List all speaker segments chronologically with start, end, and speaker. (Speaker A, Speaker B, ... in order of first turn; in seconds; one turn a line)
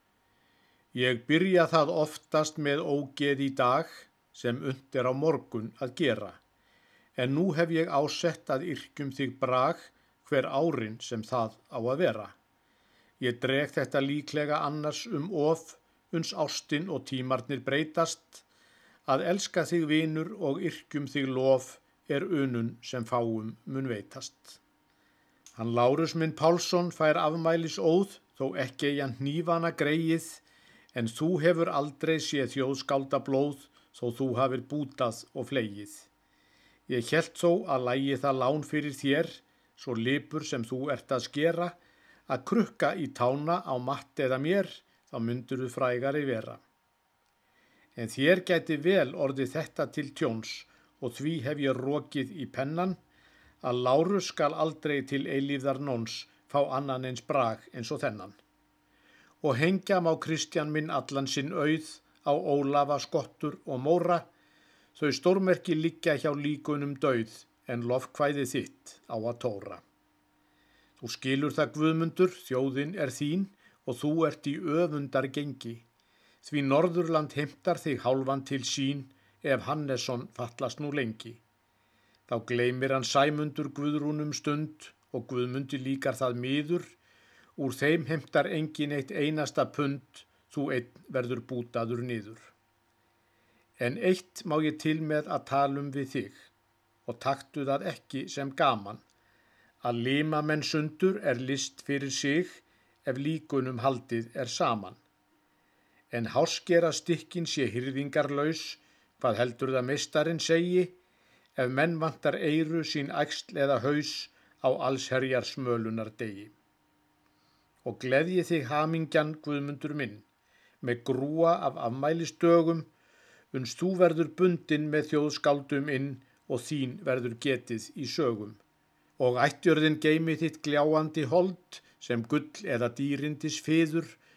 Speaker A: 0.9-6.4
Speaker A: 7.2-12.3
Speaker A: 13.2-18.4
Speaker A: 19.1-24.6
Speaker A: 25.6-30.4
Speaker A: 30.9-36.1
Speaker A: 36.9-46.6
Speaker A: 48.0-53.0
Speaker A: 53.6-58.4
Speaker A: 59.4-64.2
Speaker A: 64.9-69.8
Speaker A: 71.0-75.8
Speaker A: 76.4-81.4
Speaker A: 82.3-87.0
Speaker A: 87.6-92.5
Speaker A: 93.8-96.5
Speaker A: 97.0-99.0
Speaker A: 99.8-105.0
Speaker A: 106.1-111.0
Speaker A: 111.6-116.5
Speaker A: 117.8-120.3
Speaker A: 120.8-122.9
Speaker A: 123.5-128.6
Speaker A: 129.2-134.2